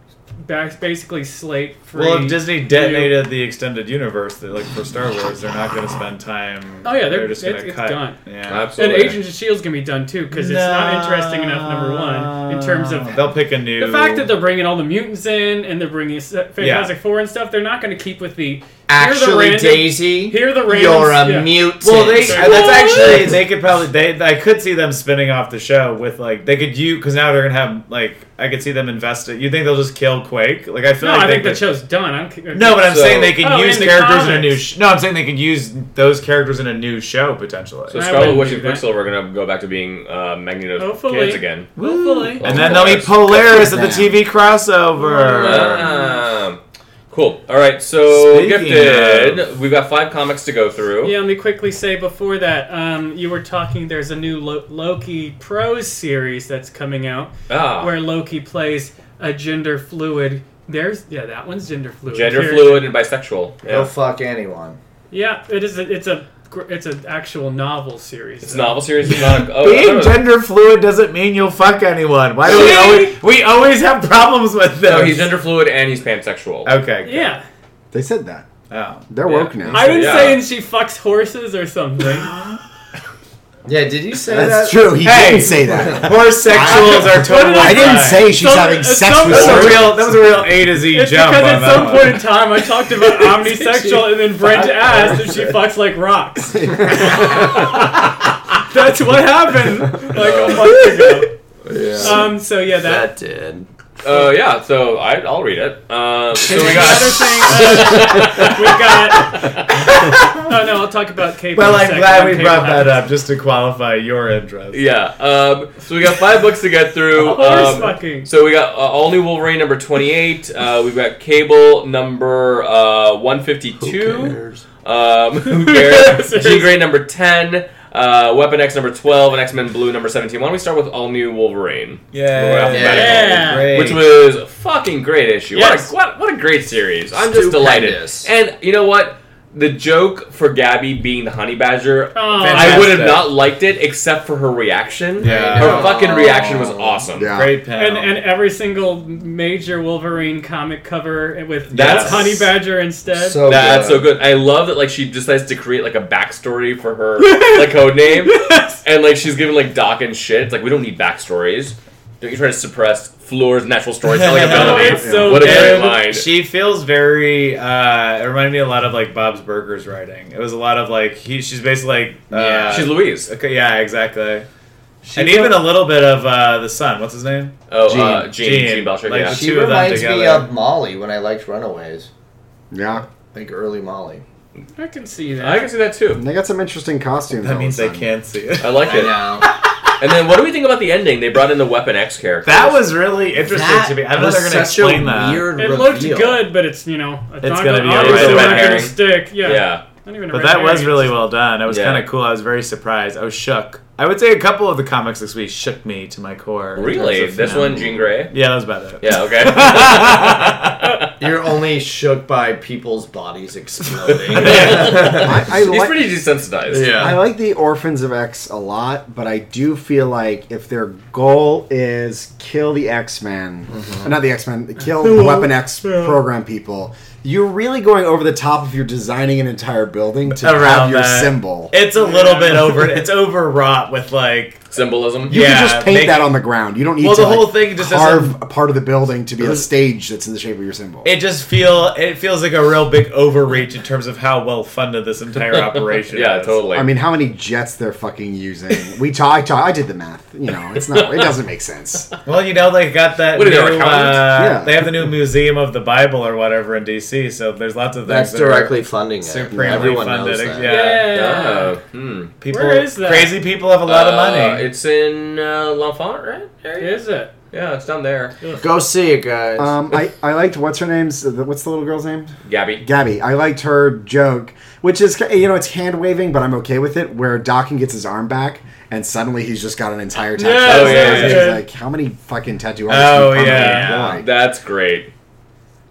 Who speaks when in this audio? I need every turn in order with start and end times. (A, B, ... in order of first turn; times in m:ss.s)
0:00.4-0:03.2 A
0:02.0-0:08.7 B
0:06.8-0:08.2 A
0:08.5-0:09.2 C
0:08.8-0:23.2 A
0:10.3-0:14.3 B
0:16.6-0:16.9 B
0:18.9-0:23.2 D
0:21.8-0:31.7 B
0:31.0-0:34.6 A
0:32.5-0:38.4 B
0:32.8-0:33.4 C
0:37.9-0:41.7 C
0:37.9-0:38.9 A
0:40.8-0:42.5 A
0:41.8-0:46.0 B
0:42.4-0:43.5 C
0:43.3-0:44.2 E
0:45.0-0:46.2 A
0:45.3-0:51.2 C
0:48.1-0:49.5 B
0:51.0-1:02.9 A
0:57.5-0:58.0 C
1:02.1-1:03.9 C
1:03.7-1:04.8 D
1:05.1-1:09.4 A
1:08.4-1:10.2 C
1:09.2-1:15.3 B
1:12.4-1:13.2 A
1:14.8-1:16.7 C
1:16.6-1:17.4 B
1:17.0-1:17.4 A
1:17.9-1:18.5 E
1:18.7-1:20.4 B
1:19.1-1:20.1 E
1:19.3-1:20.4 C
1:19.7-1:22.3 A
1:22.3-1:22.6 B
1:23.6-1:27.3 D
1:24.3-1:30.1 E
1:25.0-1:28.4 B
1:26.7-1:41.3 A
1:29.3-1:32.4 B
1:33.7-1:35.5 B
1:40.1-1:41.0 C
1:41.7-1:43.7 D
1:41.7-1:42.2 C
1:42.0-1:43.1 A
1:44.0-1:49.9 C
1:46.4-1:47.2 D
1:46.5-1:53.0 A
1:49.7-1:50.6 B
1:51.6-1:54.8 B
1:54.7-2:27.3 C
1:57.2-1:58.3 A
2:03.8-2:04.6 D
2:05.4-2:06.8 A
2:12.1-2:14.2 B
2:12.7-2:13.4 D
2:12.9-2:13.8 A
2:15.5-2:15.9 A
2:17.2-2:18.3 D
2:22.1-2:23.0 A
2:22.4-2:23.3 B
2:25.2-2:26.0 B
2:25.2-2:27.0 D
2:27.2-2:27.5 E
2:27.3-2:28.2 B
2:27.8-2:33.5 A
2:31.7-2:32.5 B
2:31.7-2:32.5 C
2:33.1-2:34.2 D
2:33.4-2:46.3 C
2:37.2-2:38.8 B
2:44.0-2:54.5 B
2:44.4-2:46.0 A
2:44.9-2:45.5 E
2:52.3-2:52.9 D
2:52.7-2:53.3 C
2:55.0-2:55.5 D
2:55.1-3:00.5 B
2:57.7-2:59.4 C
2:57.9-2:58.3 D
2:59.2-3:02.1 D
3:02.7-3:03.1 E
3:03.1-3:04.2 D
3:04.8-3:05.7 A
3:05.4-3:06.2 C
3:06.1-3:08.1 E
3:07.4-3:09.8 B
3:08.6-3:09.3 C
3:08.8-3:09.5 D
3:10.0-3:12.9 C
3:12.4-3:15.5 B
3:13.4-3:16.4 D
3:15.6-3:21.2 A
3:17.4-3:18.9 B
3:17.9-3:19.8 C
3:20.3-3:30.9 B
3:21.7-3:22.0 C
3:26.8-3:28.3 C
3:29.0-3:31.0 C
3:31.2-3:35.4 D
3:34.3-3:35.1 B
3:34.4-3:37.2 C
3:34.5-3:36.2 E
3:36.7-3:37.2 D
3:37.0-3:51.8 E
3:43.7-3:44.1 D
3:45.0-3:46.2 B
3:50.3-3:54.6 B
3:52.0-3:52.9 A
3:54.7-3:55.4 C
3:55.3-3:56.4 B
3:55.3-4:01.1 E
3:57.0-3:58.4 B
4:01.0-4:06.7 B
4:05.4-4:06.9 C
4:06.7-4:12.1 E
4:10.8-4:11.3 C
4:12.3-4:21.3 B
4:13.3-4:14.4 C
4:14.3-4:14.8 E
4:18.0-4:20.8 D
4:19.5-4:20.0 E
4:20.6-4:21.8 A
4:21.1-4:22.4 C
4:22.4-4:24.7 B
4:22.5-4:23.4 A
4:23.9-4:28.4 C
4:26.8-4:27.3 A
4:28.6-4:29.8 D
4:29.6-4:44.3 E
4:32.4-4:32.8 C
4:40.4-4:41.6 A
4:40.7-4:41.4 C
4:40.7-4:41.6 B
4:42.9-4:44.2 B
4:43.5-4:45.1 C